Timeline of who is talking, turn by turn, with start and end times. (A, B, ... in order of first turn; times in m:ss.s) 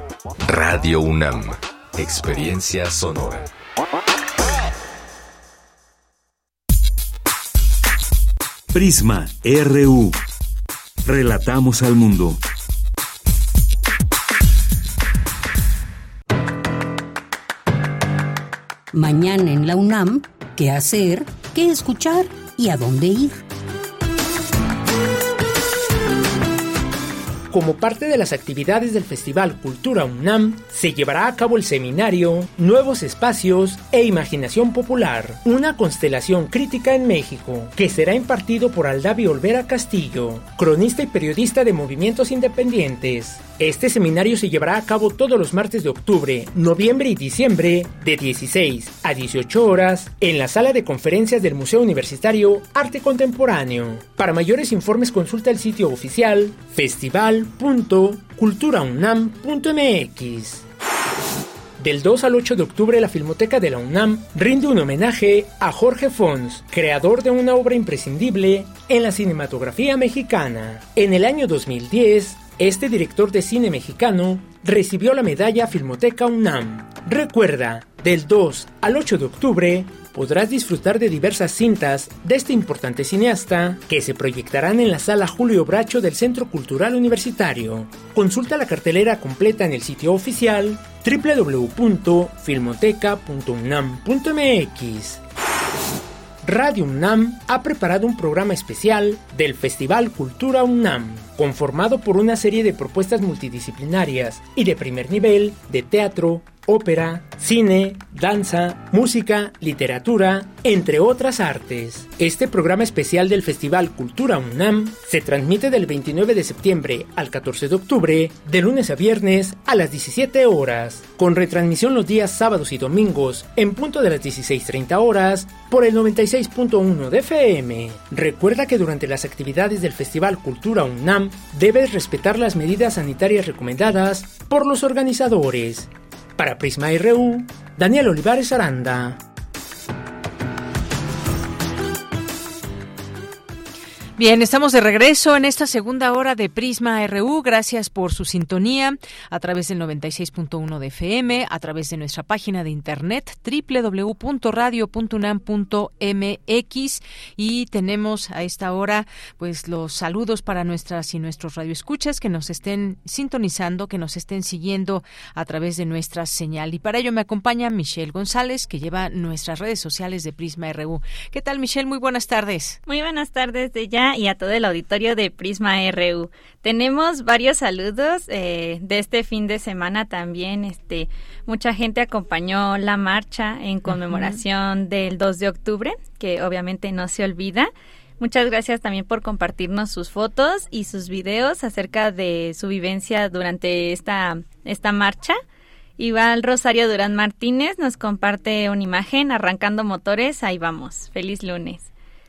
0:00.5-0:03.4 A
0:08.7-0:10.2 B
0:11.0-0:12.4 B
0:18.9-0:23.4 C
0:27.5-1:00.6 D
1:01.8-1:35.2 D
1:36.4-2:19.2 D
2:24.2-2:52.8 E
2:52.9-3:15.4 F
3:03.9-3:04.4 E
3:16.0-3:21.9 F